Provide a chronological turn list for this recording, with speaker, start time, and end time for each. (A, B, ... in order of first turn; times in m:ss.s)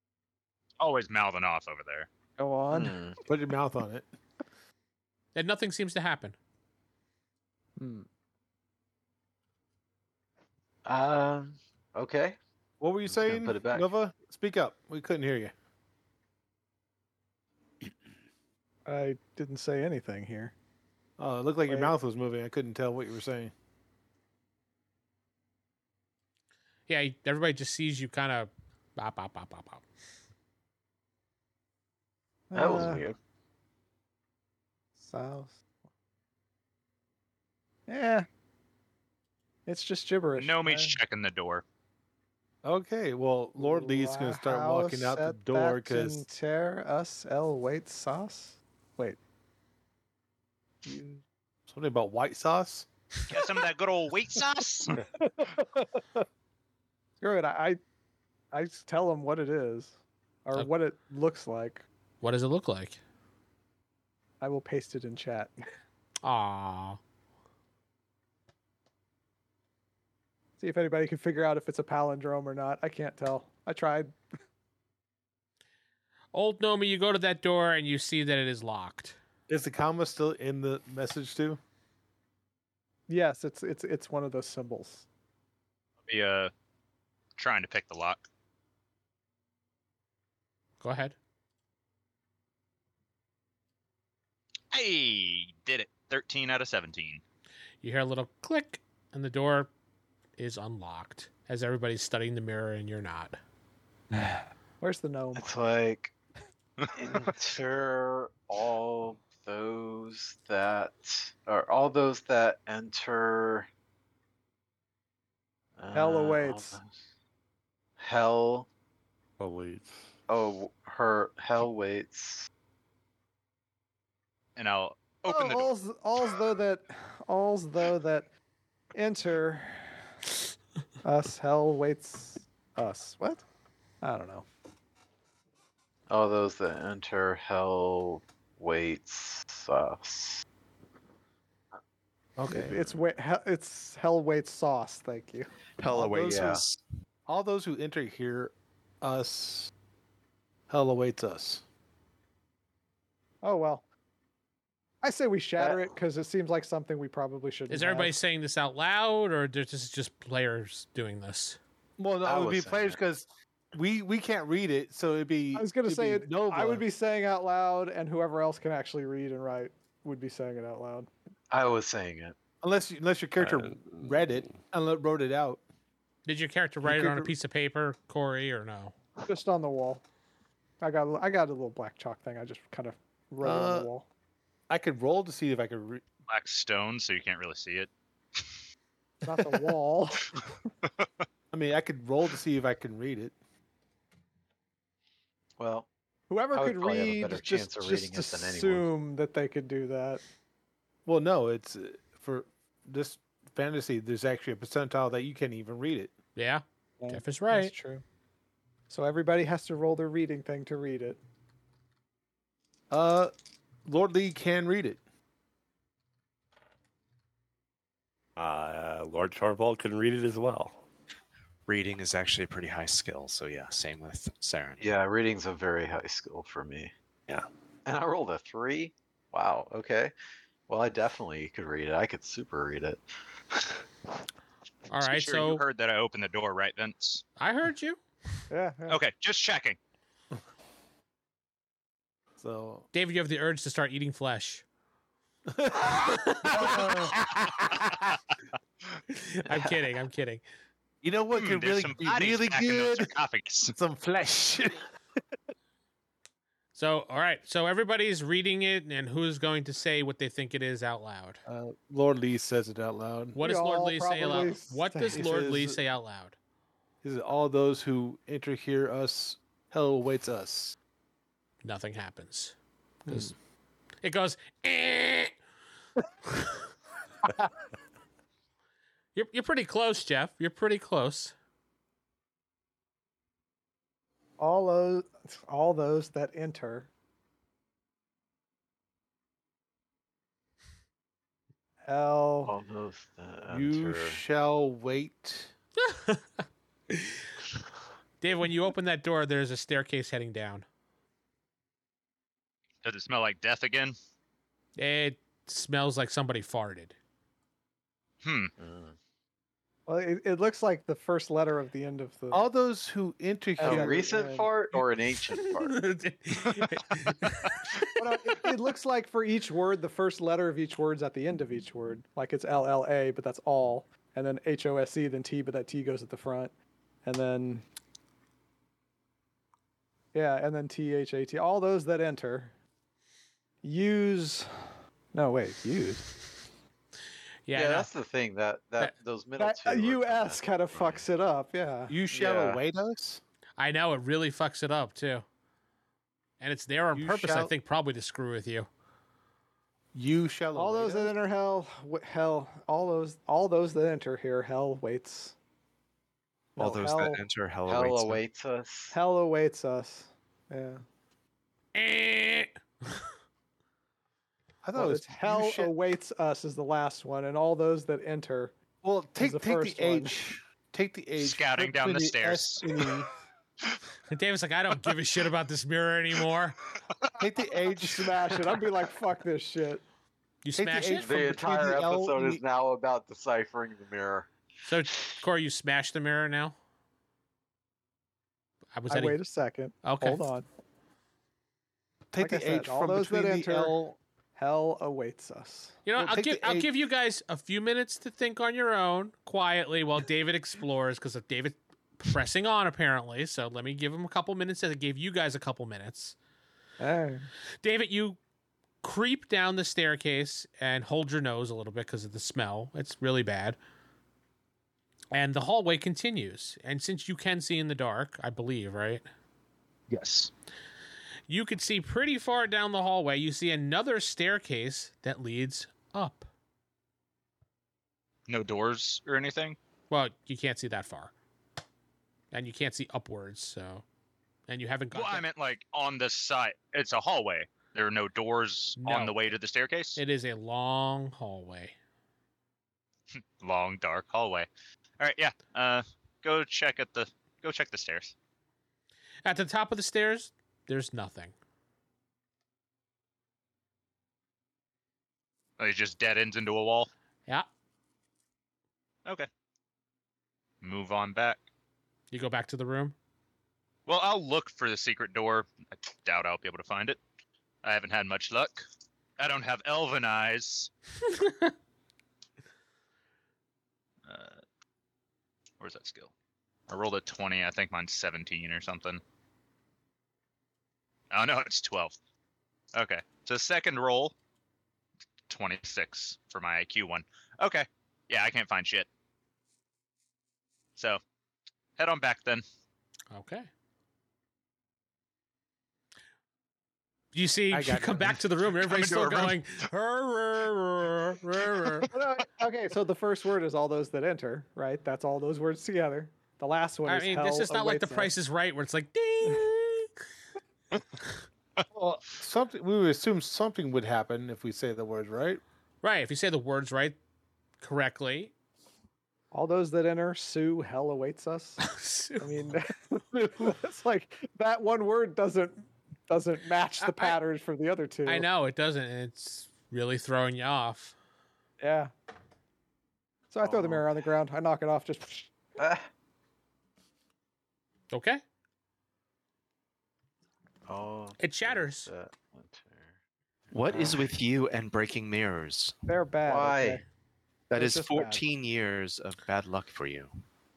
0:00.8-0:02.1 A
0:02.4-0:03.0 B
0:02.7-0:03.2 C
0:03.3-0:04.0 D
0:05.4-0:06.4 E
0:07.8-0:08.1 B
0:10.9-0:12.4 C
0:12.8-0:15.5 D
0:13.1-0:13.9 C
0:18.9-0:20.5 B
0:21.2-0:23.5 D
0:21.7-0:21.9 B
0:26.9-0:29.8 E
0:32.5-0:33.0 B
0:32.5-0:33.2 C
0:35.0-0:35.6 B
0:37.9-0:38.3 B
0:39.7-0:41.0 B
0:40.4-0:41.6 A
0:42.6-0:46.2 D
0:43.6-0:49.2 B
0:50.8-0:51.2 B
0:51.7-0:52.9 D
0:53.3-0:54.9 A
0:57.2-0:57.8 B
0:58.5-1:01.9 B
1:02.2-1:03.0 E
1:04.4-1:05.5 B
1:06.2-1:07.0 E
1:10.6-1:14.2 B
1:16.3-1:19.2 E
1:19.5-1:21.6 D
1:23.1-1:25.0 B
1:26.1-1:26.5 A
1:27.4-1:28.3 A
1:30.8-1:31.2 E
1:34.7-1:37.2 A
1:37.8-1:39.7 E
1:40.4-1:43.4 E
1:44.1-1:45.5 B
1:45.4-1:46.1 C
1:46.9-1:53.7 C
1:55.8-1:56.9 C
1:55.9-1:56.8 B
1:58.0-1:58.7 C
1:59.4-2:00.0 F
2:00.3-2:02.5 C
2:04.6-2:05.7 A
2:05.3-2:08.3 B
2:09.0-2:09.9 B
2:11.0-2:13.4 B
2:14.0-2:14.5 B
2:16.1-2:20.4 C
2:22.4-2:22.8 D
2:22.5-2:26.4 B
2:25.8-2:26.8 G
2:26.2-2:26.6 C
2:27.3-2:29.7 D
2:30.7-2:31.6 D
2:33.4-2:33.8 B
2:35.0-2:38.2 B
2:35.6-2:35.9 C
2:37.7-2:41.6 E
2:42.0-2:46.8 D
2:42.2-2:43.0 C
2:45.6-2:51.1 B
2:51.5-2:52.4 C
2:52.6-2:55.6 D
2:53.4-2:54.6 F
2:56.3-2:58.9 E
2:56.8-2:57.3 D
2:59.3-3:00.0 B
3:00.8-3:04.1 B
3:03.4-3:03.9 D
3:04.7-3:06.0 D
3:06.3-3:08.4 A
3:09.2-3:10.4 B
3:11.5-3:13.3 D
3:15.6-3:15.9 C
3:16.3-3:20.2 B
3:16.5-3:18.9 C
3:21.1-3:26.1 D
3:26.4-3:27.7 E
3:27.0-3:28.0 B
3:28.9-3:31.2 B
3:32.9-3:33.3 D
3:33.9-3:35.0 D
3:38.4-3:40.8 F
3:41.7-3:44.9 G
3:44.8-3:46.9 C
3:47.9-3:50.1 C
3:50.7-3:53.8 C
3:54.9-3:55.6 E
3:55.0-3:57.2 A
3:57.4-3:58.0 E
3:58.5-3:59.0 B
3:58.9-3:59.8 A
4:02.4-4:02.9 D
4:02.9-4:04.6 E
4:05.5-4:08.2 D
4:06.0-4:06.9 E
4:09.1-4:10.4 E
4:11.0-4:13.1 D
4:11.3-4:13.7 A
4:13.7-4:14.8 D
4:16.8-4:21.4 E
4:21.5-4:23.4 D
4:23.4-4:26.4 E
4:23.4-4:25.3 B
4:25.1-4:25.8 D
4:27.0-4:30.8 D
4:31.6-4:32.6 E
4:33.1-4:33.3 E
4:34.0-4:35.3 E
4:36.3-4:36.6 E
4:39.2-4:41.3 E
4:44.4-4:46.9 B
4:51.9-4:52.5 B
4:52.4-4:54.2 C
4:53.5-4:55.5 D
4:55.8-4:56.2 E
4:56.9-4:57.2 E
4:58.2-5:00.6 E
5:02.8-5:04.0 A
5:04.8-5:07.0 E
5:08.2-5:08.5 A
5:08.6-5:09.0 C
5:09.9-5:12.5 B
5:12.3-5:14.2 D
5:13.6-5:14.5 B
5:13.6-5:15.8 C
5:15.4-5:17.9 E
5:18.0-5:26.5 B
5:27.0-5:27.6 B
5:30.1-5:32.5 B
5:33.6-5:34.5 B
5:35.1-5:36.1 B
5:37.5-5:37.9 E
5:37.5-5:41.0 C
5:39.4-5:42.0 B
5:41.9-5:43.2 D
5:42.1-5:42.6 C
5:43.6-5:45.2 E
5:46.4-5:48.7 E
5:46.9-5:47.5 D
5:49.9-5:51.1 D
5:50.6-5:55.4 B
5:56.6-5:57.2 B
5:56.6-5:58.2 G
5:57.7-5:59.0 C
5:58.9-6:00.8 B
6:01.7-6:03.0 E
6:04.6-6:05.7 D
6:04.8-6:08.6 B
6:08.8-6:13.1 D
6:09.2-6:10.2 B
6:11.2-6:12.7 A
6:14.1-6:16.6 E
6:17.2-6:18.4 D
6:17.8-6:19.8 B
6:20.4-6:21.1 E
6:20.6-6:22.4 D
6:21.0-6:24.3 C
6:24.6-6:26.6 E
6:28.8-6:29.2 E
6:28.9-6:30.5 B
6:29.8-6:30.3 E
6:32.1-6:34.0 D
6:32.2-6:33.8 B
6:34.4-6:35.8 B
6:35.9-6:46.2 E
6:36.0-6:36.7 D
6:46.8-6:47.3 B
6:47.6-6:48.2 E
6:48.8-6:53.6 E
6:55.1-6:59.0 E
6:59.9-7:00.3 A
7:01.3-7:06.3 E
7:08.3-7:09.6 A
7:09.9-7:11.1 E
7:12.3-7:13.8 E
7:14.5-7:15.2 E
7:14.9-7:20.0 A
7:18.8-7:19.3 E
7:20.0-7:21.8 E
7:23.1-7:24.5 A
7:25.0-7:28.1 A
7:29.2-7:31.3 E
7:35.6-7:36.9 A
7:40.6-7:41.4 A
7:42.1-7:43.0 E
7:43.9-7:47.0 A
7:47.6-7:48.6 A
7:49.2-7:50.7 A
7:51.1-7:51.5 E
7:54.1-7:54.4 A
7:55.6-7:56.1 A
7:56.7-7:59.0 A
8:01.1-8:02.0 A
8:02.7-8:04.1 A
8:05.3-8:08.9 A
8:11.8-8:12.4 A
8:13.1-8:13.5 E
8:17.1-8:21.9 E
8:17.5-8:18.2 D
8:18.6-8:19.4 A
8:21.9-8:28.1 B
8:26.9-8:29.9 E
8:31.7-8:35.4 D
8:35.8-8:37.0 E
8:37.6-8:38.3 E
8:39.3-8:48.3 B
8:41.6-8:42.5 E
8:46.8-8:47.2 E
8:48.1-8:51.0 E
8:51.6-8:51.9 B
8:53.3-8:55.3 B
8:53.4-8:53.8 C
8:55.6-8:55.9 C
8:57.9-8:58.2 E
9:00.7-9:03.0 C
9:01.2-9:01.9 E
9:03.5-9:05.8 G
9:03.7-9:04.1 C
9:05.9-9:06.8 B
9:06.2-9:06.8 C
9:07.5-9:10.1 G
9:07.5-9:08.2 B